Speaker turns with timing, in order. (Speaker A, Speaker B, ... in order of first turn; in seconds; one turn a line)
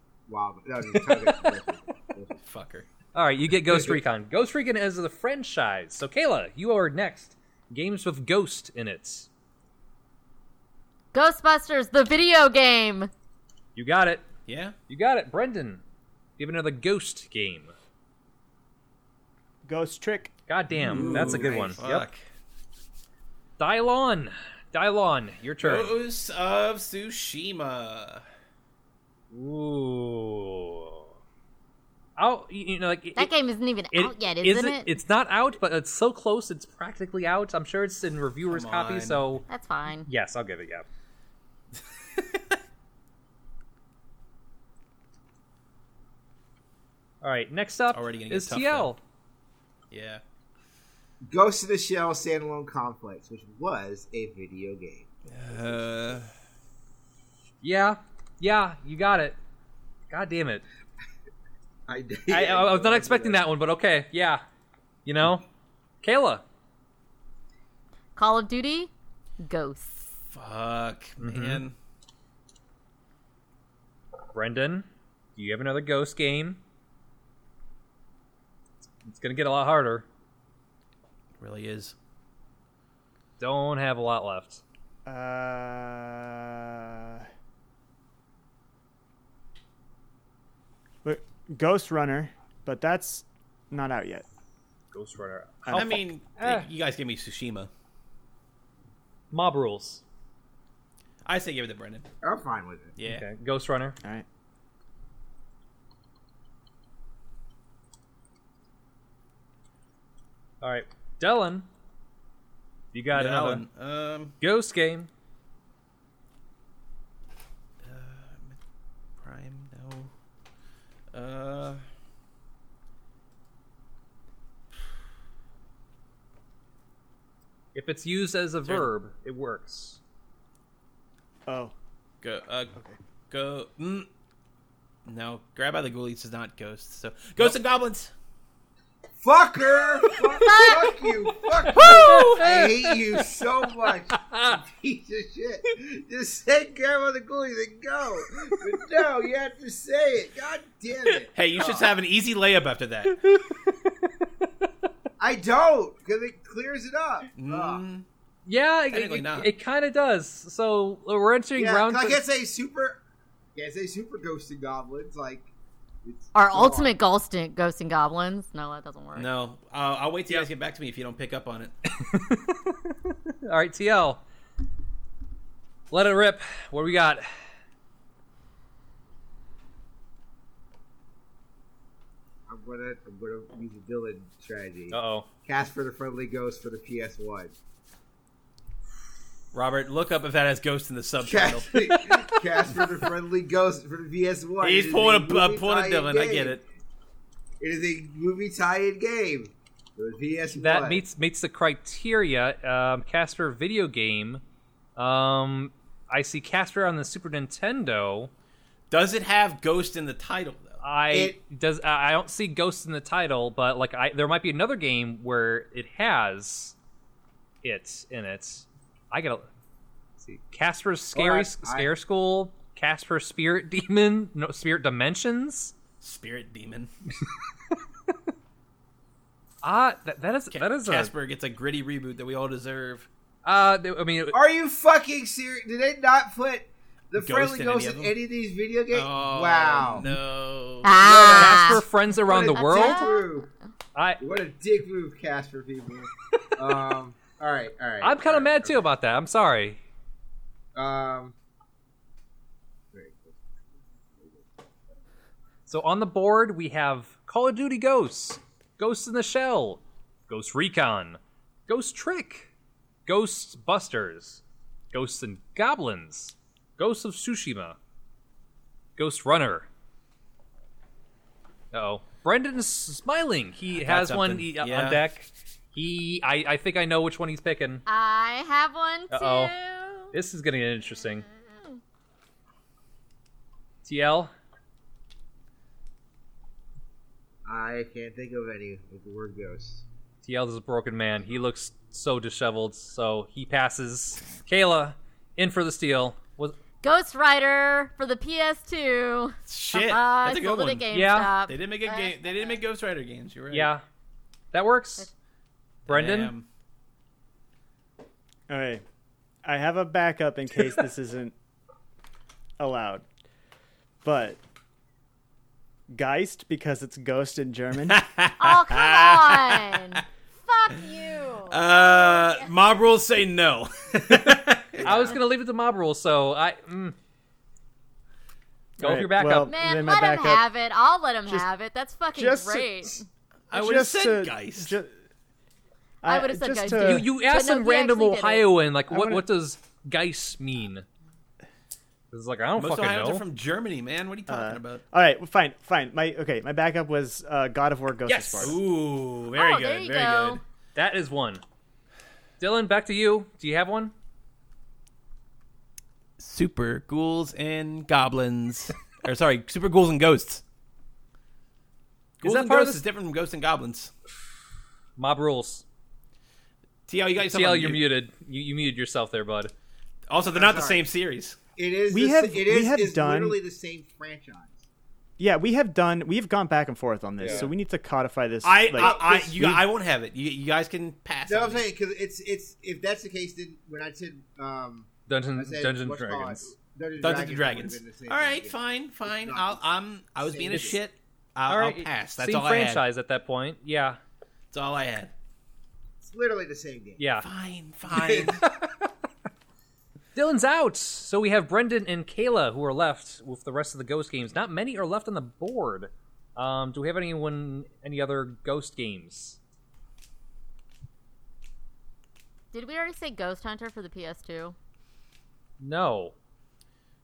Speaker A: 0.3-2.4
Speaker B: 2.4-2.9
Speaker C: 3.1-9.3
Speaker D: 11.1-13.1
Speaker C: 13.7-14.3
Speaker B: 14.5-14.8
Speaker C: 14.9-15.8
Speaker C: 16.4-17.7
Speaker E: 19.6-20.3
Speaker C: 20.5-22.1
Speaker B: 20.7-22.2
Speaker A: 20.9-21.7
Speaker E: 21.0-21.7
Speaker C: 23.6-26.0
Speaker B: 25.6-28.2
Speaker C: 29.3-31.1
Speaker C: 32.2-33.3
Speaker D: 33.1-34.9
Speaker C: 33.9-40.8
Speaker B: 38.5-39.2
Speaker D: 39.5-40.1
Speaker C: 47.2-49.0
Speaker B: 47.9-48.9
Speaker B: 49.9-50.2
Speaker A: 51.3-55.9
Speaker B: 55.3-56.3
Speaker C: 57.6-59.4
Speaker C: 60.1-60.6
Speaker A: 61.9-63.4
Speaker C: 62.3-64.4
Speaker C: 65.0-65.4
Speaker C: 66.0-66.4
Speaker D: 68.2-70.1
Speaker B: 70.3-71.7
Speaker C: 71.2-71.6
Speaker C: 74.3-76.6
Speaker C: 78.8-80.0
Speaker B: 81.4-81.9
Speaker C: 83.4-84.6
Speaker E: 85.0-87.3
Speaker E: 91.0-94.2
Speaker C: 94.9-96.7
Speaker E: 95.7-96.0
Speaker B: 95.7-97.7
Speaker C: 99.3-100.0
Speaker B: 101.2-102.1
Speaker A: 102.2-103.0
Speaker B: 103.0-103.2
Speaker C: 103.0-104.0
Speaker C: 110.6-111.7
Speaker C: 112.9-113.6
Speaker B: 113.1-114.3
Speaker C: 114.4-115.1
Speaker B: 117.8-118.6
Speaker B: 119.2-120.1
Speaker B: 121.1-121.8
Speaker C: 127.7-130.0
Speaker E: 131.4-131.7
Speaker B: 132.2-132.7
Speaker B: 133.3-134.1
Speaker B: 135.1-138.1
Speaker A: 139.2-151.9
Speaker D: 140.4-140.9
Speaker C: 141.6-143.2
Speaker C: 144.1-144.6
Speaker B: 151.3-153.2
Speaker A: 155.2-157.8
Speaker B: 157.3-158.0
Speaker C: 158.4-162.2
Speaker B: 158.9-159.5
Speaker A: 161.6-163.0
Speaker A: 163.5-165.5
Speaker A: 166.0-167.0
Speaker D: 166.3-169.3
Speaker B: 169.1-171.7
Speaker C: 171.8-174.2
Speaker C: 175.9-177.3
Speaker A: 182.5-187.5
Speaker C: 184.9-185.3
Speaker B: 189.5-192.8
Speaker A: 191.2-196.6
Speaker B: 194.6-196.6
Speaker A: 197.6-201.0
Speaker C: 200.5-204.4
Speaker C: 204.9-208.3
Speaker B: 208.9-210.8
Speaker C: 210.8-216.7
Speaker A: 211.1-211.4
Speaker C: 217.6-219.5
Speaker C: 220.2-225.7
Speaker A: 221.1-221.9
Speaker B: 226.0-226.9
Speaker C: 229.6-231.1
Speaker B: 230.5-233.1
Speaker C: 233.4-234.4
Speaker A: 234.3-240.1
Speaker B: 237.2-238.1
Speaker B: 238.9-241.0
Speaker D: 240.8-241.8
Speaker A: 241.0-243.5
Speaker C: 241.3-243.1
Speaker D: 242.5-243.3
Speaker C: 243.9-244.2
Speaker A: 244.2-248.8
Speaker C: 248.0-249.8
Speaker A: 250.7-251.3
Speaker A: 252.9-253.4
Speaker A: 254.1-254.5
Speaker C: 255.7-262.5
Speaker C: 263.1-267.8
Speaker C: 269.0-269.7
Speaker C: 271.7-277.8
Speaker B: 273.8-275.0
Speaker D: 277.9-280.1
Speaker C: 279.1-279.5
Speaker C: 280.1-281.2
Speaker D: 281.3-281.8
Speaker C: 283.8-284.3
Speaker A: 287.4-289.8
Speaker C: 290.2-296.6
Speaker D: 296.8-302.6
Speaker B: 299.5-300.9
Speaker C: 300.9-301.4
Speaker B: 301.5-303.7
Speaker C: 303.5-303.8
Speaker C: 304.5-305.1
Speaker C: 305.9-306.3
Speaker B: 305.9-306.4
Speaker E: 308.5-308.8
Speaker E: 309.4-311.3
Speaker E: 312.6-313.0
Speaker E: 314.0-314.4
Speaker E: 315.9-318.0
Speaker B: 317.8-320.0
Speaker D: 318.4-322.5
Speaker B: 321.5-325.1
Speaker C: 324.2-326.9
Speaker C: 328.8-329.5
Speaker E: 328.8-330.4
Speaker D: 329.4-333.1
Speaker E: 332.1-333.0
Speaker B: 333.5-334.7
Speaker E: 333.5-334.9
Speaker E: 336.0-337.1
Speaker D: 336.0-338.5
Speaker C: 336.8-340.9
Speaker E: 338.9-339.2
Speaker C: 342.1-343.2
Speaker B: 342.6-344.8
Speaker E: 344.3-348.6
Speaker C: 348.1-348.5
Speaker B: 348.3-350.4
Speaker D: 349.3-350.4
Speaker C: 350.7-351.4
Speaker C: 352.4-353.9
Speaker B: 356.2-360.4
Speaker B: 362.2-363.9
Speaker C: 362.2-362.8
Speaker C: 365.0-365.6
Speaker B: 366.9-367.8
Speaker C: 367.2-369.5
Speaker B: 370.1-371.4
Speaker A: 370.3-370.9
Speaker A: 371.6-374.7
Speaker E: 371.9-373.4
Speaker E: 375.2-379.6
Speaker B: 378.4-381.7
Speaker A: 378.8-379.3
Speaker A: 381.3-389.6
Speaker C: 385.1-386.5
Speaker B: 387.0-392.8
Speaker A: 390.2-390.8
Speaker C: 391.5-394.0
Speaker B: 394.5-395.1
Speaker A: 396.0-397.0
Speaker C: 397.0-397.3
Speaker B: 397.2-398.5
Speaker A: 397.9-398.4
Speaker C: 400.1-409.4
Speaker D: 412.5-414.6
Speaker C: 415.6-416.1